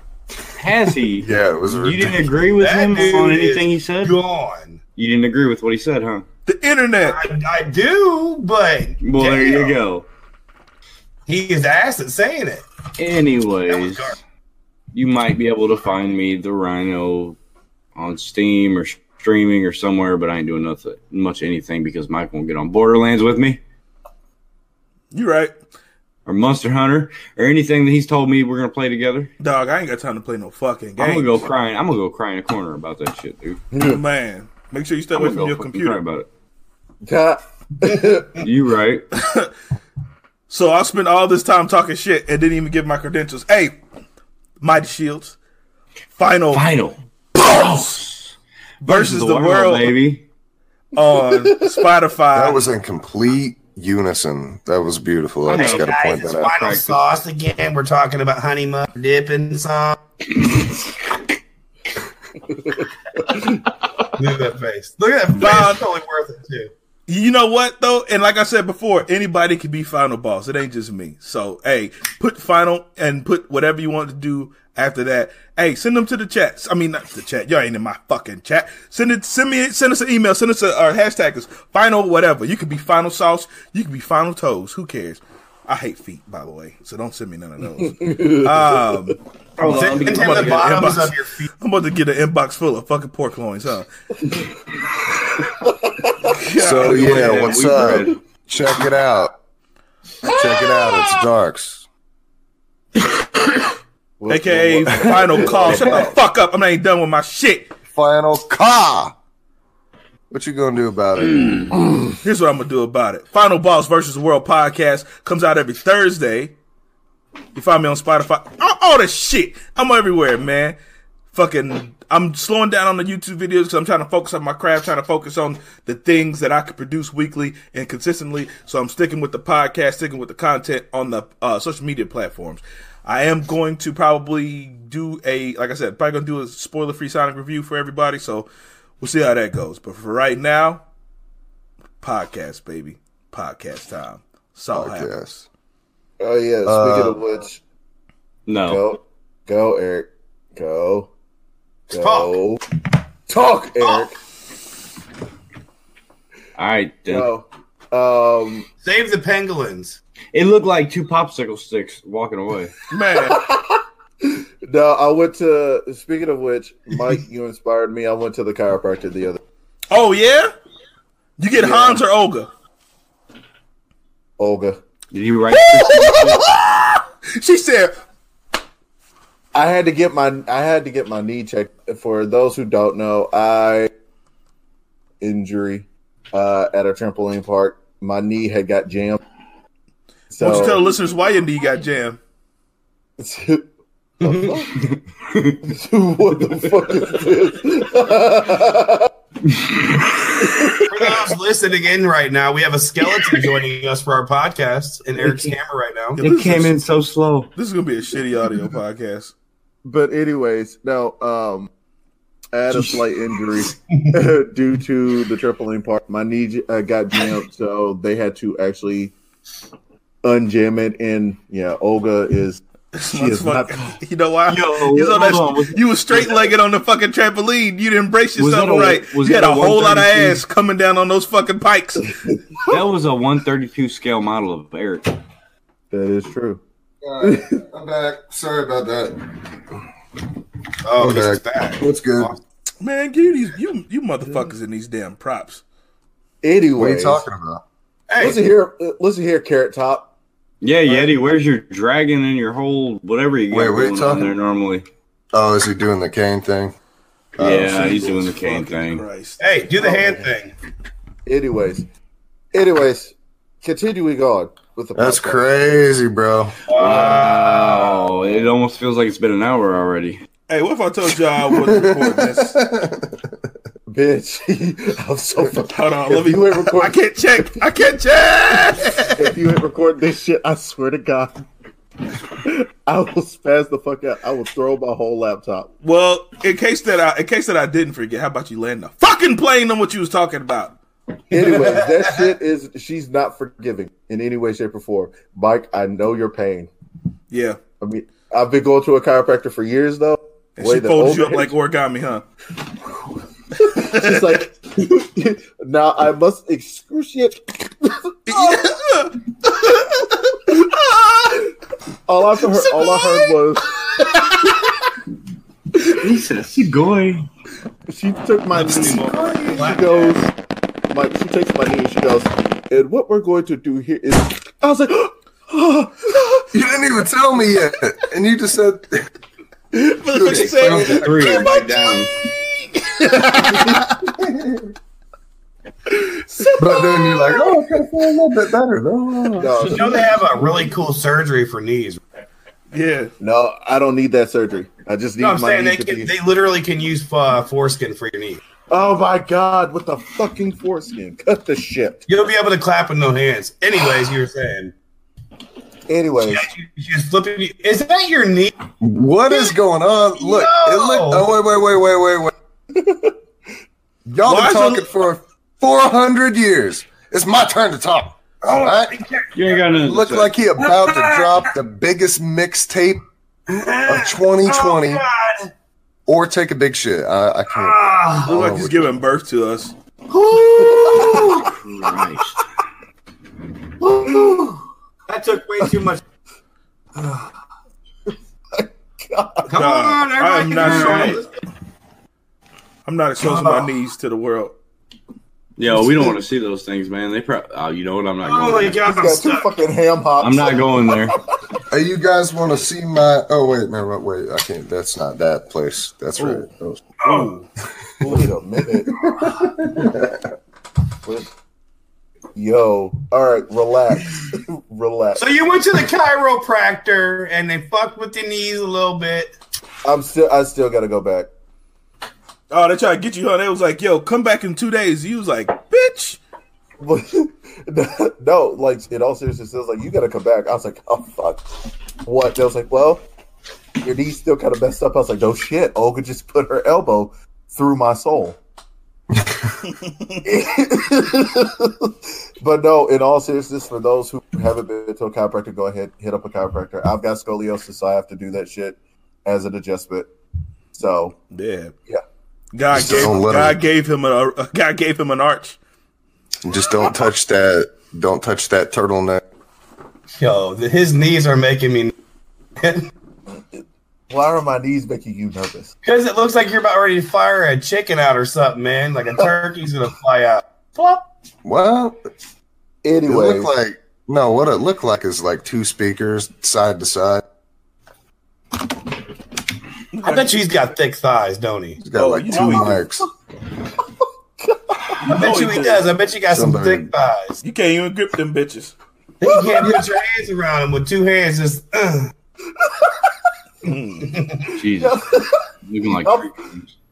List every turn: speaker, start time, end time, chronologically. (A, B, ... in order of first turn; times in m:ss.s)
0:00.6-0:04.1 A
0:01.2-0:02.3 B
0:02.6-0:04.8 C
0:05.0-0:06.2 A
0:06.5-0:07.2 D
0:07.0-0:09.8 C
0:09.0-0:10.1 A
0:11.3-0:12.6 C
0:13.0-0:14.2 A
0:13.7-0:14.1 C
0:14.9-0:17.4 A
0:18.0-0:23.6 A
0:25.1-0:25.5 D
0:26.2-0:29.3 A
0:29.4-0:31.4 D
0:31.0-0:33.6 A
0:33.7-0:34.0 E
0:33.8-0:36.0 D
0:35.1-0:36.3 A
0:37.0-0:38.4 E
0:38.4-0:39.0 A
0:39.1-0:39.5 D
0:40.5-0:43.8 D
0:44.6-0:45.4 D
0:46.2-0:46.6 D
0:46.5-0:48.3 A
0:47.5-0:48.0 D
0:48.8-0:50.0 D
0:48.8-0:50.2 A
0:50.9-0:52.6 D
0:51.0-0:51.8 E
0:52.3-0:56.6 B
0:55.5-0:57.1 A
0:55.5-1:00.0 C
1:04.2-1:06.7 C
1:05.4-1:05.8 D
1:07.1-1:33.9 D
1:27.8-1:28.9 E
1:29.6-1:30.9 A
1:29.6-1:31.5 C
1:35.6-1:36.3 E
1:36.3-1:37.8 D
1:36.5-1:39.3 B
1:36.8-1:38.2 A
1:40.2-1:41.8 B
1:44.2-1:46.1 E
1:44.3-1:47.7 D
1:45.7-1:46.0 B
1:47.9-1:49.1 B
1:50.3-1:51.8 B
1:52.2-1:56.5 D
1:57.5-2:00.8 D
2:01.3-2:18.5 D
2:19.0-2:20.8 D
2:22.0-2:25.4 D
2:24.7-2:25.3 B
2:26.2-2:27.6 E
2:26.6-2:27.2 B
2:28.5-2:28.8 A
2:28.6-2:31.1 E
2:31.9-2:32.3 C
2:31.9-2:32.6 E
2:33.3-2:34.2 E
2:33.8-2:34.1 C
2:36.6-2:37.3 A
2:37.1-2:38.7 E
2:38.8-2:40.0 C
2:40.3-2:42.7 A
2:42.9-2:43.4 D
2:43.1-2:49.4 E
2:49.9-2:50.5 D
2:51.4-2:52.5 D
2:51.6-2:52.0 E
2:54.4-2:54.8 E
2:55.1-2:56.5 A
2:55.5-2:57.9 D
2:59.5-3:03.9 E
3:05.2-3:09.2 E
3:10.3-3:10.9 E
3:10.4-3:12.2 D
3:13.2-3:13.7 E
3:14.2-3:14.8 E
3:14.2-3:14.7 C
3:14.9-3:15.6 A
3:15.6-3:19.1 E
3:19.5-3:20.2 A
3:20.4-3:21.0 E
3:20.9-3:26.2 C
3:26.2-3:26.7 D
3:26.2-3:27.5 A
3:27.5-3:29.3 D
3:29.8-3:31.7 E
3:32.5-3:39.1 E
3:40.2-3:44.0 E
3:42.9-3:52.3 D
3:44.5-3:46.3 A
3:48.4-3:50.4 A
3:52.7-3:55.1 A
3:55.9-3:56.6 E
3:57.0-3:59.4 B
3:57.2-3:57.5 E
4:00.8-4:02.4 C
4:01.0-4:02.3 B
4:02.8-4:05.6 D
4:06.4-4:07.2 E
4:06.8-4:07.6 B
4:08.1-4:08.4 C
4:08.2-4:10.1 E
4:10.6-4:14.8 A
4:13.5-4:14.3 B
4:15.3-4:16.8 B
4:17.4-4:18.1 B
4:17.4-4:19.0 A
4:17.4-4:19.4 D
4:19.4-4:20.5 C
4:19.8-4:20.2 E
4:21.2-4:21.8 E
4:22.5-4:25.4 E
4:25.0-4:26.6 B
4:26.7-4:28.4 C
4:26.7-4:30.2 A
4:30.5-4:32.6 D
4:31.5-4:33.5 B
4:33.9-4:37.0 E
4:35.6-4:39.4 D
4:39.2-4:41.4 E
4:42.3-4:45.7 E
4:45.8-4:50.8 D
4:51.3-4:56.7 E
4:51.3-4:52.3 C
4:57.3-4:57.6 D
4:57.8-5:01.5 E
5:00.6-5:02.2 D
5:03.5-5:08.6 E
5:03.6-5:04.4 D
5:08.3-5:11.5 D
5:12.0-5:14.5 E
5:12.5-5:13.3 D
5:15.8-5:17.3 A
5:17.9-5:20.3 E
5:18.5-5:20.2 C
5:20.9-5:26.5 E
5:26.5-5:29.1 B
5:29.7-5:33.5 D
5:30.1-5:31.7 B
5:30.2-5:32.1 A
5:33.0-5:33.9 E
5:34.1-5:34.7 B
5:36.6-5:40.1 B
5:39.4-5:40.2 E
5:39.7-5:42.0 C
5:42.7-5:43.1 D
5:43.2-5:46.1 E
5:45.2-5:48.4 C
5:48.7-5:52.1 E
5:52.1-5:54.7 C
5:55.9-5:56.5 E
5:56.2-5:58.5 C
5:58.8-6:02.3 B
6:00.2-6:01.3 C
6:02.7-6:03.1 E
6:04.0-6:08.9 B
6:04.2-6:04.9 D
6:08.4-6:09.7 C
6:09.3-6:10.3 A
6:09.8-6:13.0 B
6:10.6-6:11.4 C
6:13.5-6:15.5 C
6:13.8-6:15.0 B
6:16.0-6:19.0 B
6:17.5-6:18.3 C
6:18.2-6:19.7 D
6:20.1-6:21.5 C
6:20.5-6:21.5 E
6:21.3-6:22.4 A
6:23.8-6:24.6 E
6:25.1-6:26.0 C
6:27.0-6:27.3 E
6:28.5-6:29.5 E
6:29.5-6:31.3 C
6:29.5-6:31.2 D
6:30.6-6:31.0 A
6:32.8-6:34.5 D
6:33.2-6:33.7 C
6:35.6-6:38.8 A
6:38.2-6:39.5 C
6:38.8-6:41.2 E
6:40.2-6:41.1 A
6:41.7-6:46.8 B
6:46.2-6:46.5 D
6:47.0-6:47.4 D
6:47.0-6:47.3 C
6:48.0-6:49.2 E
6:49.0-6:50.2 B
6:51.0-6:51.3 E
6:52.3-6:55.3 E
6:55.2-6:59.3 C
6:59.8-7:01.3 E
7:02.5-7:06.2 D
7:06.8-7:11.5 E
7:12.0-7:13.0 E
7:13.8-7:18.4 E
7:20.2-7:30.1 E
7:30.7-7:31.1 E
7:31.3-7:31.7 D
7:32.5-7:35.6 D
7:32.7-7:33.6 B
7:36.4-7:39.2 B
7:40.2-7:41.9 C
7:42.6-7:42.9 C
7:44.1-7:45.7 E
7:45.8-7:51.0 C
7:51.4-7:52.0 B
7:52.8-7:53.5 E
7:53.1-7:57.2 B
7:59.9-8:00.4 D
8:00.0-8:01.8 C
8:01.8-8:03.1 B
8:01.9-8:02.9 D
8:04.4-8:05.0 E
8:05.0-8:05.9 D
8:05.0-8:07.4 C
8:06.3-8:06.9 B
8:07.4-8:08.7 D
8:09.2-8:12.1 C
8:09.2-8:09.7 E
8:12.6-8:13.1 E
8:13.6-8:14.2 D
8:14.1-8:14.5 C
8:14.5-8:16.7 A
8:14.8-8:15.4 E
8:16.0-8:16.3 E